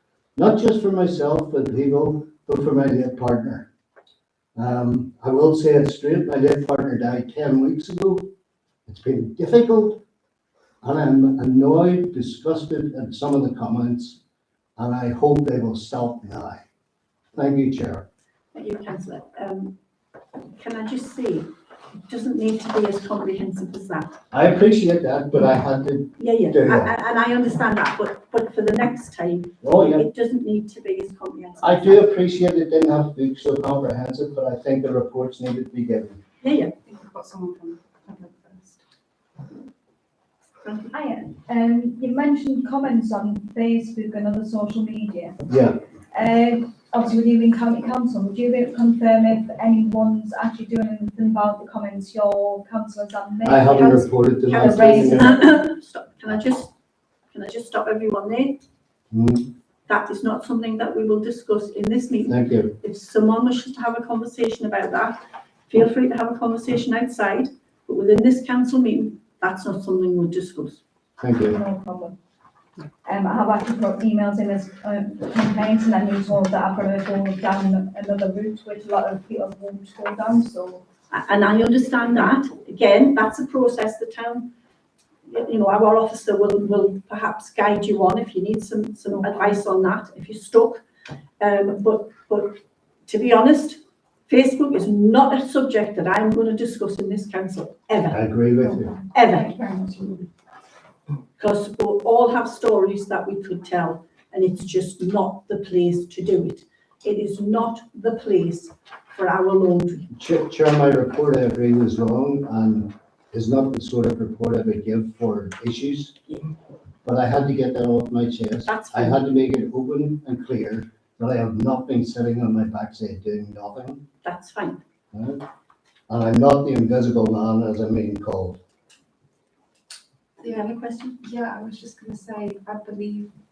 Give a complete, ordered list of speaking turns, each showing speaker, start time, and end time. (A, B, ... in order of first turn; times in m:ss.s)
0:00.4-0:03.7 A
0:04.6-0:08.3 A
0:08.9-0:10.0 A
0:10.8-0:14.2 A
0:14.8-0:16.6 A
0:17.4-0:18.0 A
0:18.5-0:19.8 B
0:20.4-0:21.5 B
0:22.0-0:24.2 B
0:24.3-0:26.9 A
0:26.2-0:32.1 B
0:29.6-0:30.1 A
0:31.6-0:36.2 A
0:36.4-0:36.7 B
0:36.8-0:38.8 C
0:40.6-0:40.9 B
0:40.9-0:45.5 D
0:45.5-0:45.8 A
0:46.1-0:55.6 D
0:53.4-0:55.3 A
0:53.7-0:56.7 B
0:57.3-0:58.6 B
0:59.1-0:59.5 A
0:59.9-1:10.8 B
1:02.3-1:02.7 A
1:11.2-1:11.6 A
1:11.4-1:12.2 D
1:13.0-1:20.8 D
1:21.1-1:24.5 B
1:25.3-1:30.8 B
1:31.4-1:38.2 B
1:38.1-1:39.0 A
1:38.6-1:40.3 D
1:39.1-1:39.6 B
1:41.4-1:50.1 B
1:50.1-1:56.1 A
1:57.0-2:04.0 A
1:58.7-1:59.2 B
2:04.2-2:04.8 B
2:05.1-2:05.4 A
2:06.1-2:08.6 A
2:10.4-2:11.2 B
2:10.4-2:13.3 C